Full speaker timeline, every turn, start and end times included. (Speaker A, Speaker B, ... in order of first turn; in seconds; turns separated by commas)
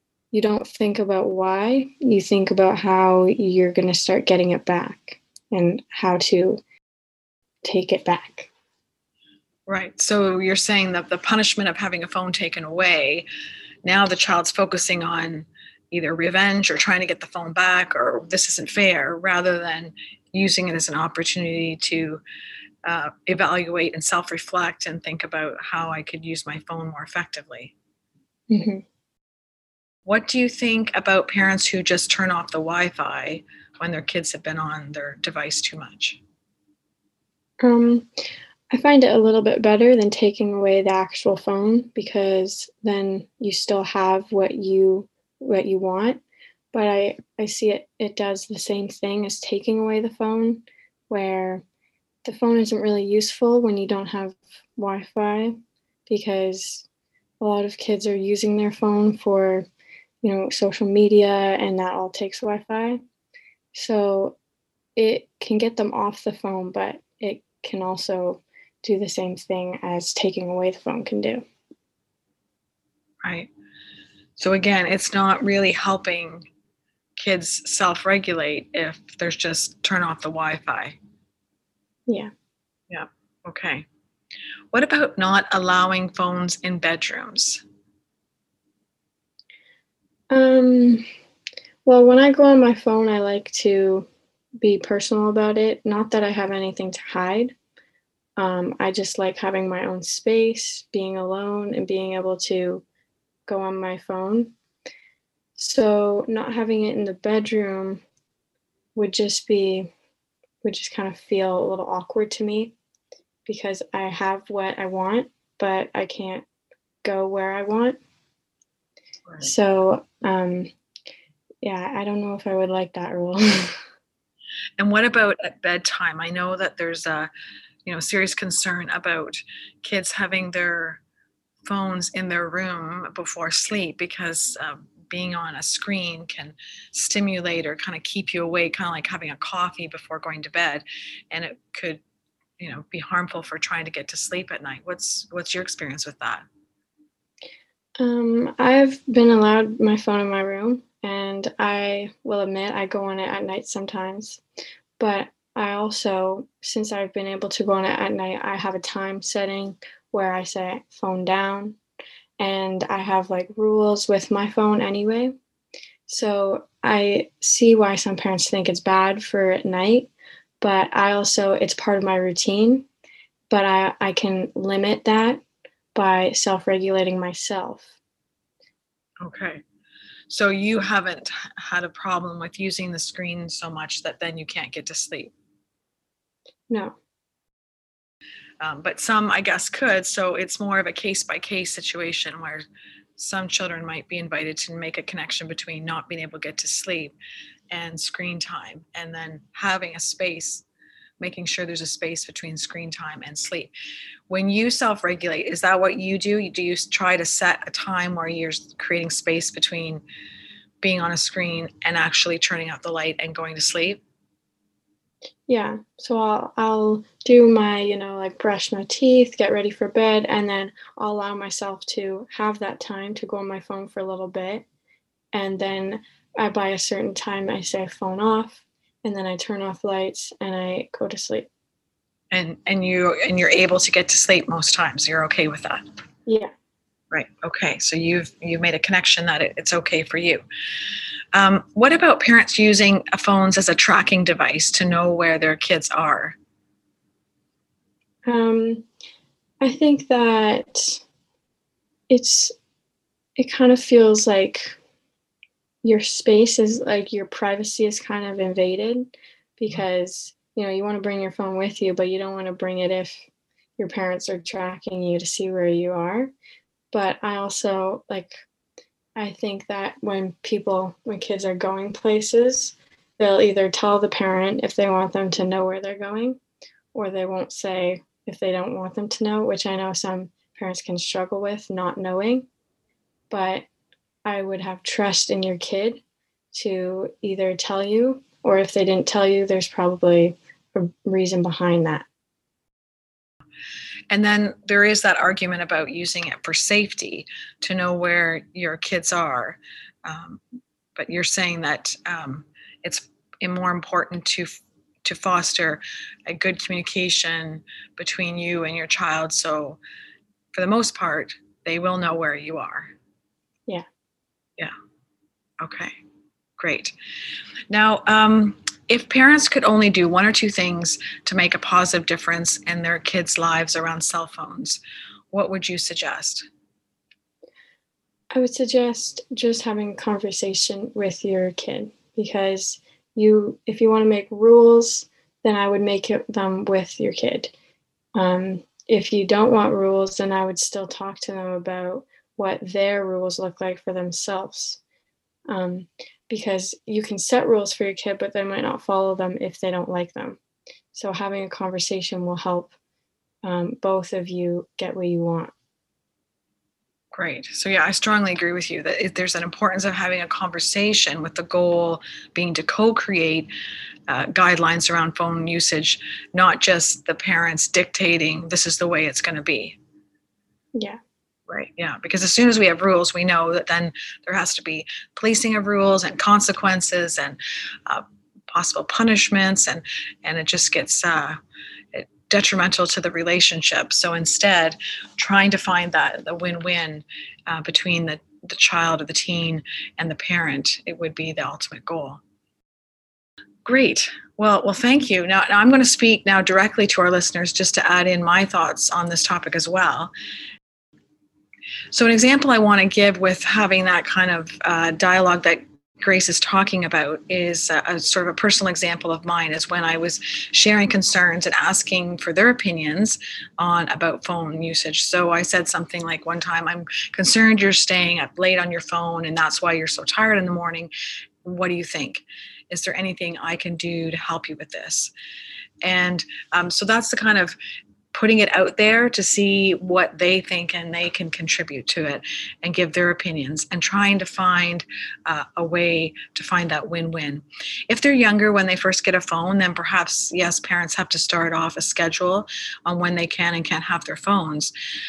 Speaker A: 0.3-6.6, Speaker A: 7.6-8.5, Speaker B: 9.7-13.2, Speaker B: 13.8-22.2, Speaker B: 22.8-27.7, Speaker A: 28.5-28.8, Speaker B: 30.0-36.2, Speaker A: 37.6-38.1, Speaker A: 38.7-46.2, Speaker A: 46.7-51.6, Speaker A: 52.2-56.9, Speaker A: 57.4-59.7, Speaker A: 60.2-63.0, Speaker A: 63.7-64.4, Speaker A: 65.0-71.4, Speaker B: 73.2-73.5, Speaker B: 74.4-76.5, Speaker B: 77.2-81.0, Speaker B: 82.9-83.8, Speaker B: 84.7-87.6, Speaker A: 90.3-91.0, Speaker A: 91.8-94.1, Speaker A: 94.6-97.5, Speaker A: 98.4-102.8, Speaker A: 103.5-104.5, Speaker A: 105.6-108.0, Speaker A: 108.9-109.9, Speaker A: 110.6-112.7, Speaker A: 113.5-116.4, Speaker A: 117.0-118.0, Speaker A: 119.4-120.7, Speaker A: 121.6-123.8, Speaker B: 124.8-127.3, Speaker B: 127.8-131.0, Speaker B: 131.6-142.0, Speaker B: 142.6-146.4, Speaker A: 148.0-154.4, Speaker A: 155.0-161.8, Speaker A: 162.4-165.3, Speaker A: 166.1-172.9, Speaker A: 173.5-175.4, Speaker A: 175.9-177.9, Speaker B: 179.2-179.6, Speaker B: 180.3-185.3, Speaker A: 186.7-186.9, Speaker B: 188.6-192.6, Speaker B: 193.2-197.1, Speaker B: 197.7-200.6, Speaker B: 201.2-203.7, Speaker B: 204.3-210.0, Speaker B: 210.8-214.0, Speaker A: 215.5-224.6, Speaker A: 225.3-231.5, Speaker B: 232.3-235.8, Speaker A: 236.2-236.5, Speaker B: 237.1-240.4, Speaker B: 241.3-246.4, Speaker A: 248.3-248.8, Speaker A: 249.6-251.0, Speaker A: 252.1-252.5, Speaker A: 253.4-254.8, Speaker A: 255.8-263.2, Speaker A: 263.8-266.3, Speaker A: 266.9-268.3, Speaker A: 269.2-276.4, Speaker A: 276.9-282.5, Speaker A: 283.3-283.6, Speaker A: 284.2-286.0, Speaker A: 286.5-292.1, Speaker B: 294.1-300.4, Speaker B: 300.9-309.8, Speaker B: 310.5-312.9, Speaker B: 315.6-315.9, Speaker B: 316.6-316.9, Speaker B: 317.7-324.8, Speaker B: 325.3-326.4, Speaker A: 328.3-337.5, Speaker A: 338.1-344.8, Speaker A: 345.5-350.4, Speaker A: 350.9-352.7, Speaker A: 353.4-355.5, Speaker B: 357.1-363.5, Speaker B: 364.1-369.8, Speaker A: 370.7-371.0, Speaker B: 371.5-381.4, Speaker B: 381.9-392.2, Speaker B: 393.6-400.1, Speaker B: 401.9-420.9, Speaker B: 421.4-425.1, Speaker B: 425.8-427.6, Speaker B: 428.1-444.7